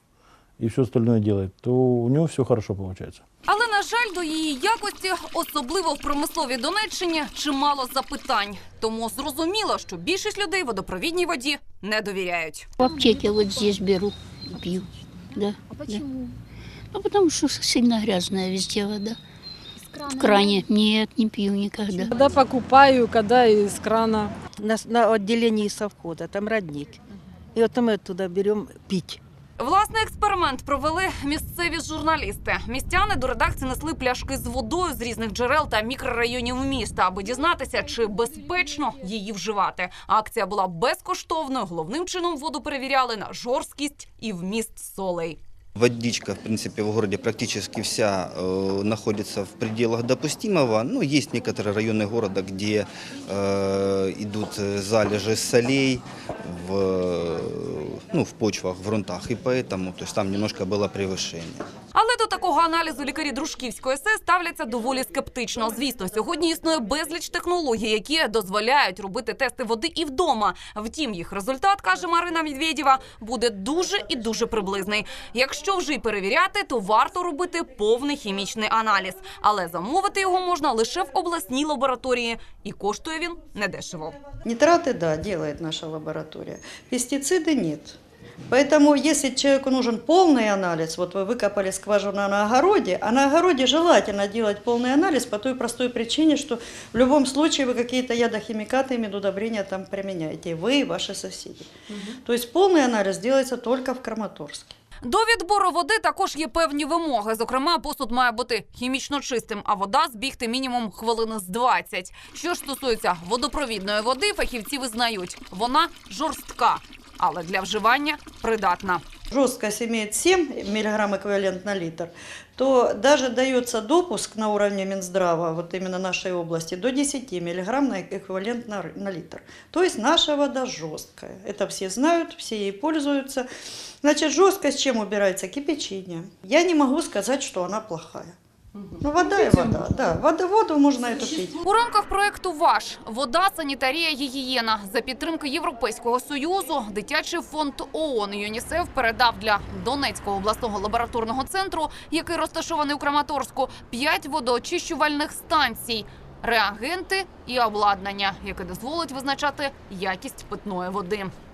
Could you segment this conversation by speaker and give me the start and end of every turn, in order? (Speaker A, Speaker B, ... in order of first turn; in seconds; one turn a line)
Speaker A: 0.6-3.2
Speaker B: 3.5-12.7
Speaker C: 12.8-16.0
Speaker C: 16.9-19.2
Speaker C: 20.1-22.1
Speaker D: 22.1-24.3
Speaker E: 24.6-27.0
Speaker E: 27.5-29.2
Speaker B: 29.6-45.4
Speaker F: 45.8-61.6
Speaker B: 61.9-84.2
Speaker G: 84.4-88.0
Speaker G: 88.5-101.7
Speaker G: 102.2-104.7
Speaker B: 105.0-119.0
Speaker G: 119.3-133.4
Speaker G: 134.0-138.3
Speaker G: 139.0-141.5
Speaker B: 141.6-161.3